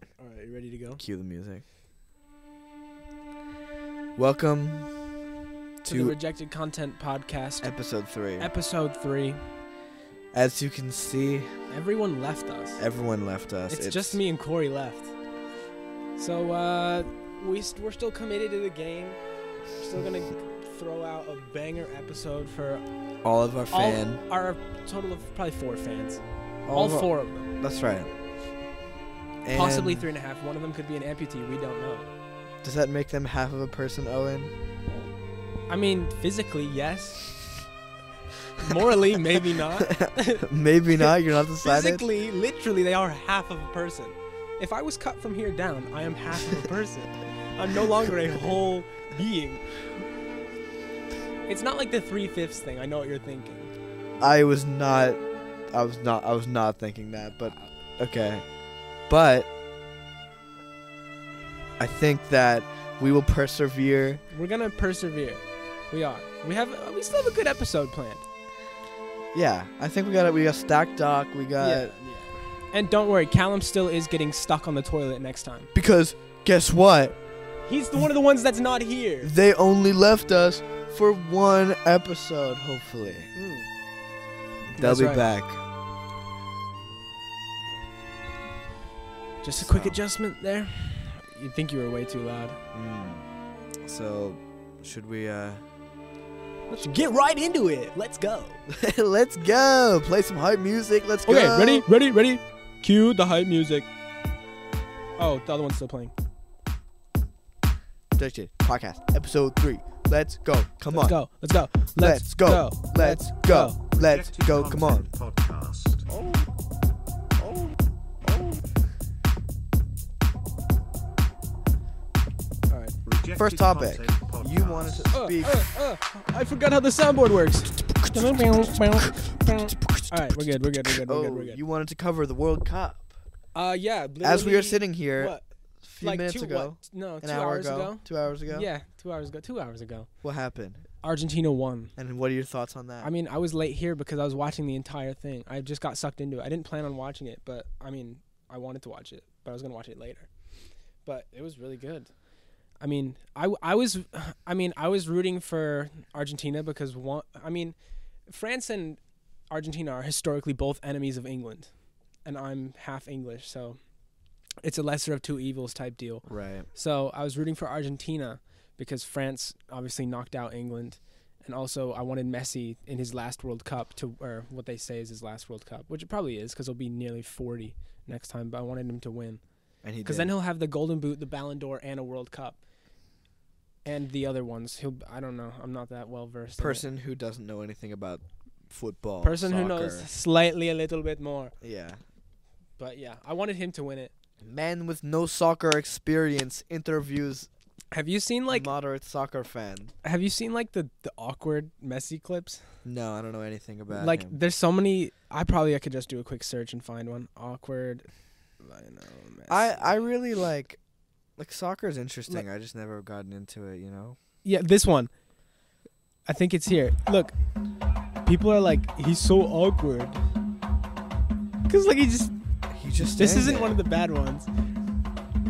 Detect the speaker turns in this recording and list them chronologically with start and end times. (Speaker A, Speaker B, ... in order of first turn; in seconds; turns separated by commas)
Speaker A: 0.2-1.0, Speaker B: 1.0-1.6, Speaker B: 4.2-4.9, Speaker A: 5.8-7.7, Speaker B: 5.8-6.2, Speaker B: 7.6-8.5, Speaker A: 8.4-9.4, Speaker B: 10.3-11.5, Speaker A: 11.7-12.8, Speaker B: 12.8-14.2, Speaker A: 13.7-15.1, Speaker A: 16.2-19.2, Speaker A: 19.8-22.8, Speaker B: 23.2-24.2, Speaker A: 23.7-27.5, Speaker B: 26.7-28.1, Speaker B: 29.4-30.1, Speaker A: 29.5-32.1, Speaker B: 32.6-34.5, Speaker A: 35.7-37.4, Speaker A: 38.6-49.6, Speaker B: 39.6-42.1, Speaker A: 51.5-53.7, Speaker B: 54.2-58.5, Speaker B: 59.1-59.5, Speaker B: 61.8-64.2, Speaker A: 64.3-68.2, Speaker B: 69.3-71.9, Speaker A: 71.6-75.7, Speaker B: 75.7-77.2, Speaker A: 77.7-79.3, Speaker B: 79.2-83.3, Speaker A: 83.3-83.7, Speaker B: 84.7-85.6, Speaker A: 84.8-85.3, Speaker A: 89.4-92.6, Speaker B: 89.6-90.0, Speaker B: 92.7-93.2, Speaker B: 93.8-95.6, Speaker A: 96.7-98.6, Speaker B: 98.7-101.9, Speaker A: 101.3-103.9, Speaker A: 105.2-106.1, Speaker B: 108.2-111.2, Speaker A: 110.9-113.8, Speaker B: 111.8-115.1, Speaker C: 113.9-116.0, Speaker B: 116.1-116.5, Speaker B: 117.4-118.6, Speaker A: 122.7-123.0, Speaker C: 123.1-125.2, Speaker B: 123.3-125.6, Speaker A: 125.1-131.6, Speaker B: 127.8-133.1, Speaker A: 133.5-135.5, Speaker B: 134.2-138.7, Speaker A: 136.0-140.1, Speaker B: 140.2-140.8, Speaker A: 141.0-141.9, Speaker B: 142.0-143.1, Speaker A: 143.0-150.3, Speaker A: 151.1-152.1, Speaker A: 152.8-157.8, Speaker A: 158.3-159.0, Speaker A: 159.5-161.7, Speaker A: 162.2-163.8, Speaker A: 164.6-179.4, Speaker B: 166.3-166.7, Speaker B: 179.8-180.3, Speaker A: 180.0-182.6, Speaker A: 183.8-186.8, Speaker B: 186.6-190.1, Speaker A: 189.2-191.5, Speaker B: 191.6-192.0, Speaker A: 192.8-194.1, Speaker B: 194.4-197.5, Speaker A: 197.9-198.7, Speaker B: 198.5-199.9, Speaker A: 200.0-202.6, Speaker B: 202.8-204.4, Speaker A: 203.9-208.1, Speaker A: 208.6-209.9, Speaker B: 209.5-210.8, Speaker B: 211.4-214.2, Speaker A: 214.4-215.1, Speaker A: 216.3-217.3, Speaker A: 218.2-220.2, Speaker A: 221.7-222.3, Speaker B: 222.7-223.8, Speaker A: 223.2-224.5